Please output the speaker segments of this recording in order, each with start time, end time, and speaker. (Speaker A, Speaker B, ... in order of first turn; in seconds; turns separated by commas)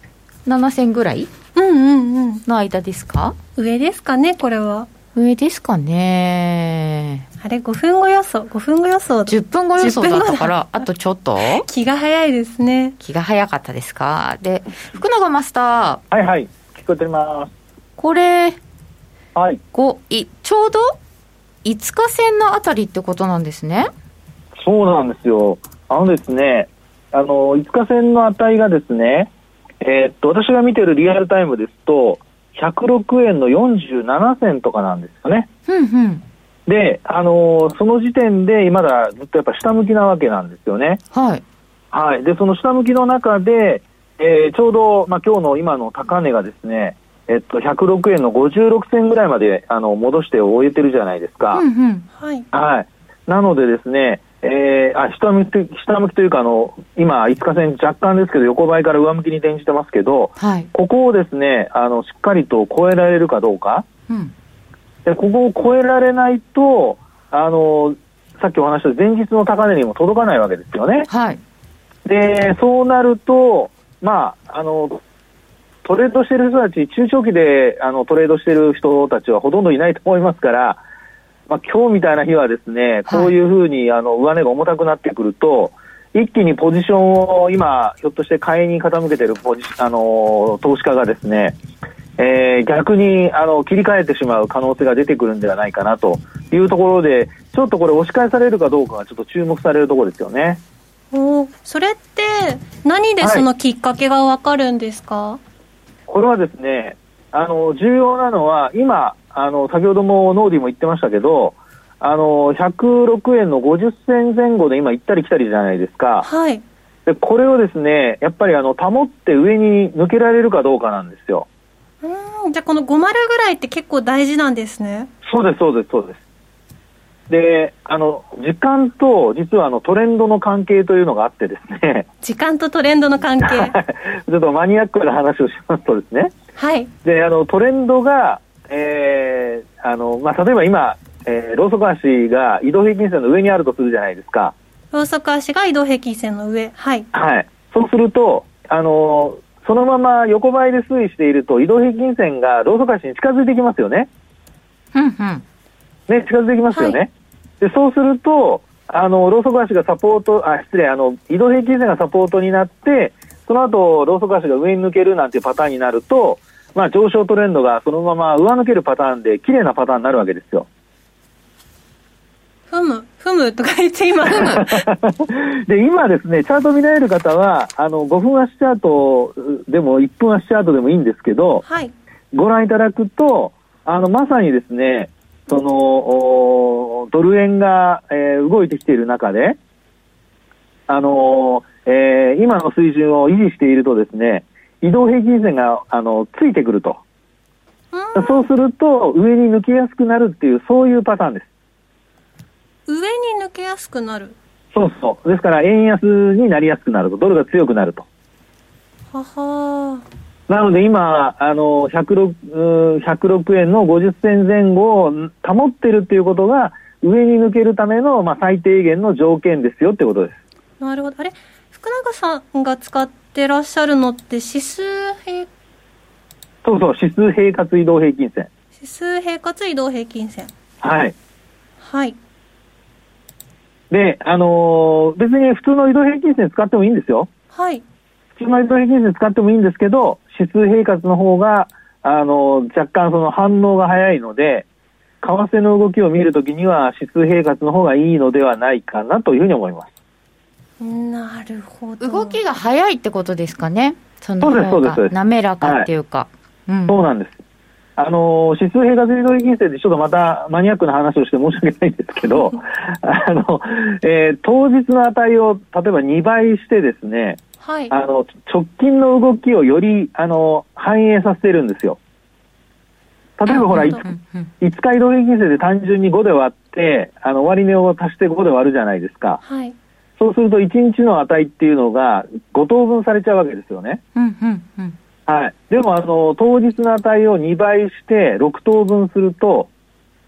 Speaker A: 0.5-1.3, Speaker B: 1.6-2.4, Speaker A: 2.5-3.4, Speaker B: 3.6-4.9, Speaker A: 5.2-7.3, Speaker B: 7.4-10.5, Speaker A: 9.3-11.7, Speaker B: 11.4-13.0, Speaker A: 13.0-16.0, Speaker C: 16.1-17.5, Speaker A: 18.0-18.6, Speaker C: 19.4-19.6, Speaker A: 19.7-20.9, Speaker A: 21.6-23.9, Speaker C: 24.6-35.5, Speaker A: 35.7-36.2, Speaker C: 36.7-41.0, Speaker A: 41.1-41.4, Speaker C: 41.9-51.6, Speaker A: 51.5-52.1, Speaker B: 52.1-52.5, Speaker C: 52.5-63.9, Speaker A: 60.4-60.7, Speaker C: 65.0-71.1, Speaker A: 71.1-71.4, Speaker C: 72.0-75.0, Speaker C: 75.8-80.8, Speaker C: 81.5-91.6, Speaker A: 83.1-83.3, Speaker C: 92.2-100.6, Speaker B: 101.1-105.4, Speaker C: 103.2-103.5, Speaker C: 106.1-116.3, Speaker B: 116.2-116.6, Speaker C: 117.1-121.5, Speaker B: 122.0-125.1, Speaker C: 125.2-126.2, Speaker C: 127.3-132.1, Speaker B: 132.2-133.8, Speaker C: 133.4-136.3, Speaker B: 136.6-136.9, Speaker C: 137.0-144.6, Speaker B: 144.9-147.1, Speaker C: 147.1-154.1, Speaker A: 154.9-155.4, Speaker C: 156.1-157.1, Speaker B: 156.7-157.0, Speaker C: 157.6-170.7, Speaker B: 172.7-174.7, Speaker A: 174.3-174.7, Speaker C: 174.3-181.6, Speaker B: 181.7-181.9, Speaker C: 182.3-189.6, Speaker C: 190.9-197.0, Speaker B: 197.9-198.5, Speaker C: 198.2-201.5, Speaker B: 202.9-204.3, Speaker C: 204.7-208.1, Speaker B: 209.1-210.0, Speaker C: 210.5-220.4, Speaker B: 220.8-225.5, Speaker C: 226.6-228.5, Speaker B: 228.8-230.5, Speaker C: 230.8-231.2, Speaker B: 231.8-232.2, Speaker C: 233.9-237.3, Speaker B: 237.5-237.8, Speaker C: 238.4-244.7, Speaker C: 245.2-249.9, Speaker B: 250.8-252.4, Speaker A: 252.0-257.0, Speaker C: 254.4-255.9, Speaker C: 256.9-257.4, Speaker C: 258.0-272.0, Speaker B: 267.6-267.9, Speaker C: 273.4-274.1, Speaker B: 273.5-274.0, Speaker A: 273.7-274.5, Speaker C: 274.6-279.4, Speaker B: 279.4-279.8, Speaker C: 280.2-284.0, Speaker A: 284.1-285.0, Speaker C: 285.3-289.7